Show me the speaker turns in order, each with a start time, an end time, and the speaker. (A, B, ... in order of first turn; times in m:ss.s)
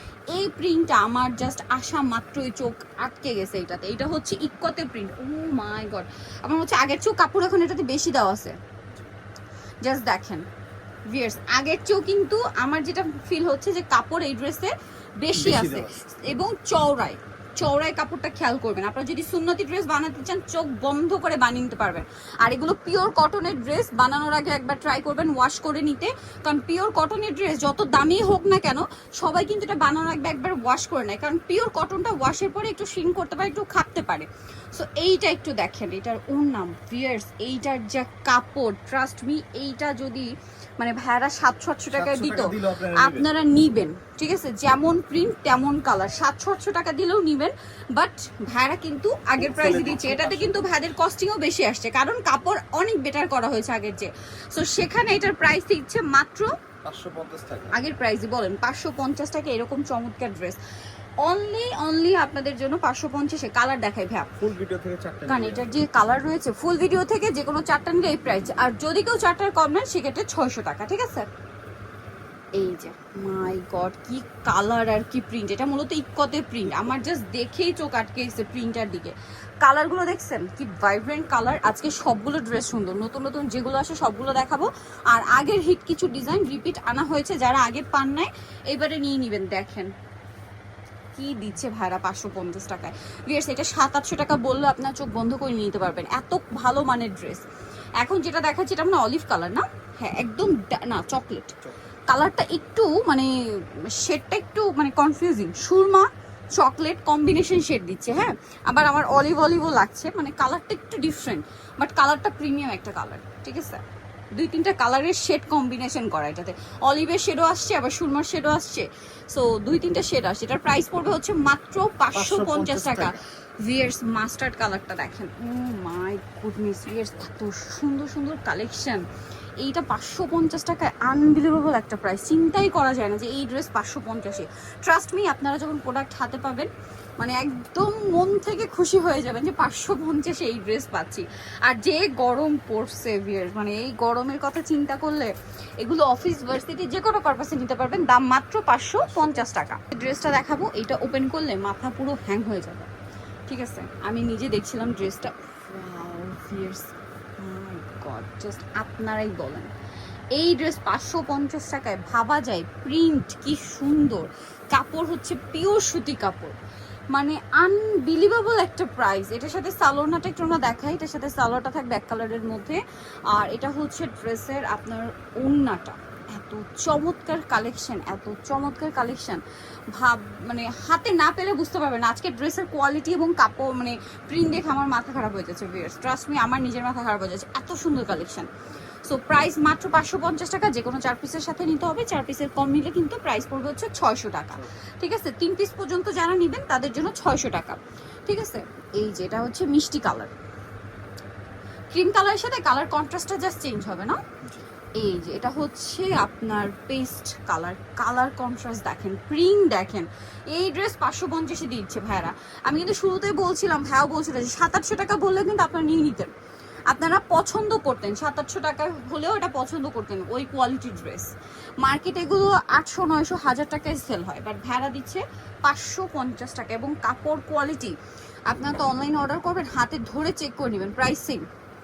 0:00.3-0:08.6 A
0:09.8-0:10.4 A
0:11.1-0:56.5 A
0:15.3-0:16.0 B
0:41.9-0:43.3 B
0:49.4-0:50.7 B
0:56.8-0:57.8 B
0:57.7-1:00.6 A
1:01.2-1:04.3 A
1:04.4-1:05.7 B
1:05.3-1:11.3 A
1:12.6-1:29.9 A
1:31.2-1:37.4 A
1:38.0-1:41.5 A
1:42.1-1:53.8 A
1:54.4-2:09.1 A
2:02.1-2:03.2 B
2:09.6-2:32.9 A
2:29.0-2:29.5 B
2:33.5-2:39.7 A
2:40.4-2:46.6 A
2:47.1-2:52.8 A
2:53.3-3:08.5 A
3:09.0-3:20.3 A
3:21.9-3:24.2 A
3:24.4-3:24.7 B
3:25.0-3:36.3 A
3:36.9-3:41.3 A
3:41.8-3:48.0 A
3:48.5-3:51.5 A